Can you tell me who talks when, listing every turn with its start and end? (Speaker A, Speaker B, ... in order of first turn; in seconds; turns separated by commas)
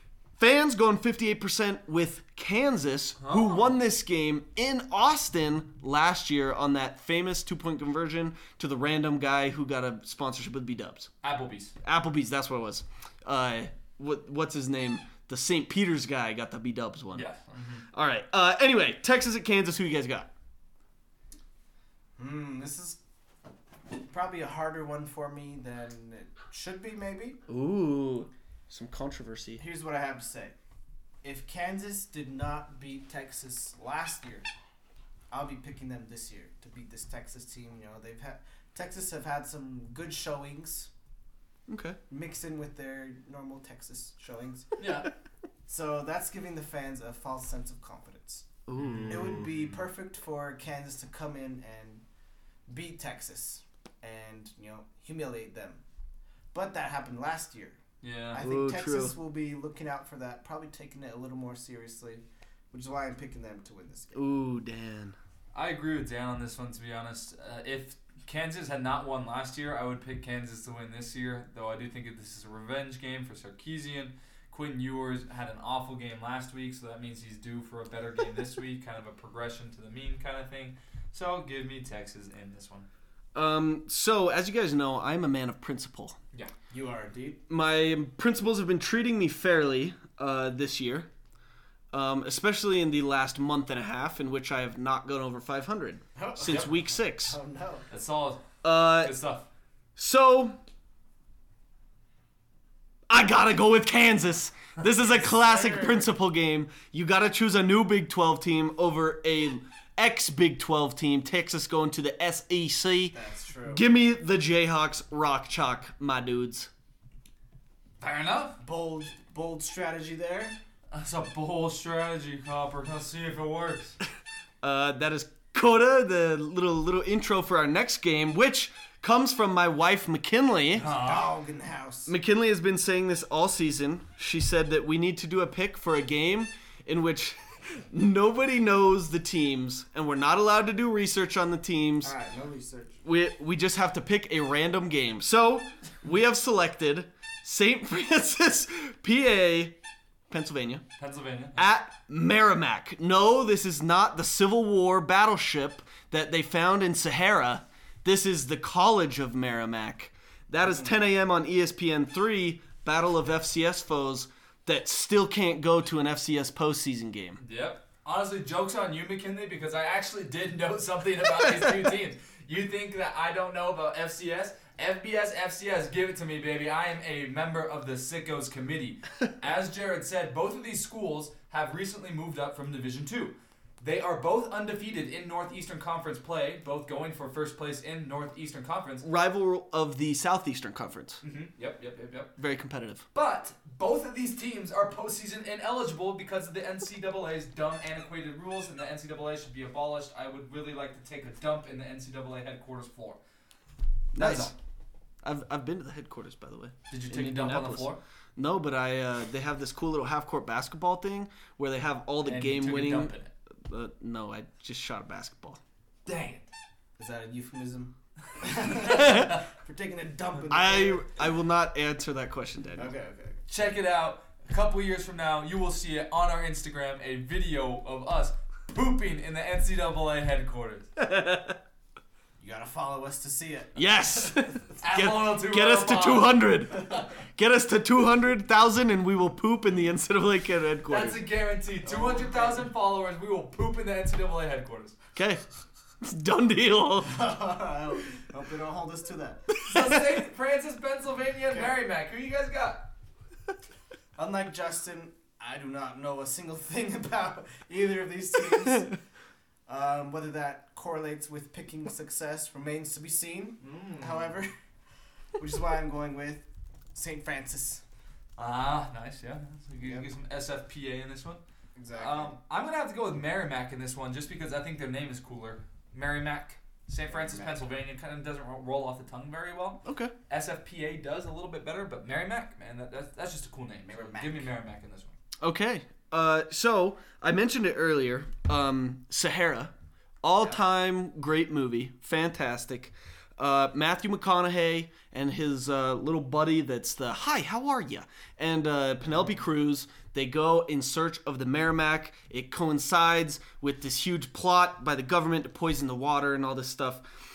Speaker A: 0.4-11.1, Speaker B: 3.2-3.6, Speaker B: 11.2-11.7, Speaker A: 11.8-17.3, Speaker B: 17.1-17.8, Speaker A: 17.9-20.3, Speaker C: 22.2-23.0, Speaker C: 24.1-27.4, Speaker A: 27.5-29.6, Speaker C: 29.6-30.5, Speaker C: 31.2-34.5, Speaker C: 35.3-40.9, Speaker A: 41.7-42.0, Speaker C: 42.1-44.7, Speaker B: 44.8-45.1, Speaker C: 45.7-48.5, Speaker A: 48.7-49.6, Speaker B: 48.8-49.3, Speaker C: 49.0-52.0, Speaker C: 52.7-55.8, Speaker C: 56.5-57.8, Speaker B: 58.0-58.4, Speaker C: 58.3-64.2, Speaker A: 58.4-59.1, Speaker A: 64.1-65.2, Speaker B: 65.5-82.9, Speaker A: 83.3-86.2, Speaker C: 86.7-87.4, Speaker A: 87.5-91.1, Speaker A: 91.9-97.4, Speaker C: 96.2-97.9, Speaker B: 97.9-99.5, Speaker A: 98.6-99.1, Speaker A: 100.0-100.6, Speaker A: 103.1-113.2, Speaker C: 104.9-106.1, Speaker C: 113.1-113.9, Speaker A: 113.7-116.7, Speaker B: 118.0-118.6, Speaker C: 118.6-120.6, Speaker B: 120.9-124.0, Speaker A: 124.6-130.9, Speaker B: 130.7-131.3, Speaker C: 130.8-132.1, Speaker A: 132.1-142.1, Speaker C: 142.0-143.0, Speaker A: 143.0-149.8, Speaker A: 150.3-150.8, Speaker B: 151.0-151.6, Speaker A: 151.6-167.4, Speaker B: 167.4-189.1, Speaker A: 189.0-191.2, Speaker B: 191.2-192.3, Speaker A: 192.4-193.1, Speaker B: 193.1-203.2, Speaker A: 204.1-204.5, Speaker B: 204.2-204.5, Speaker A: 205.2-213.1, Speaker B: 206.9-208.0, Speaker B: 212.2-213.3, Speaker A: 213.7-215.6, Speaker B: 216.1-216.4, Speaker C: 217.0-221.1, Speaker B: 218.6-219.4, Speaker A: 220.5-222.9, Speaker C: 222.8-223.4, Speaker B: 223.5-230.9, Speaker A: 231.0-231.6, Speaker C: 232.4-233.9, Speaker A: 233.8-241.2, Speaker B: 234.8-237.1, Speaker B: 240.9-244.9, Speaker C: 241.8-242.7, Speaker A: 245.1-245.4, Speaker A: 246.0-247.2, Speaker C: 247.0-249.5, Speaker B: 249.6-252.9, Speaker A: 249.7-250.0, Speaker C: 251.5-251.8, Speaker C: 254.2-258.9, Speaker C: 259.7-264.5, Speaker B: 263.6-264.4, Speaker C: 265.4-267.8, Speaker B: 268.4-271.4, Speaker C: 269.8-270.1, Speaker C: 271.8-272.4, Speaker B: 272.0-285.1, Speaker C: 277.1-277.6, Speaker A: 279.8-280.1, Speaker C: 283.9-284.5, Speaker A: 285.4-307.0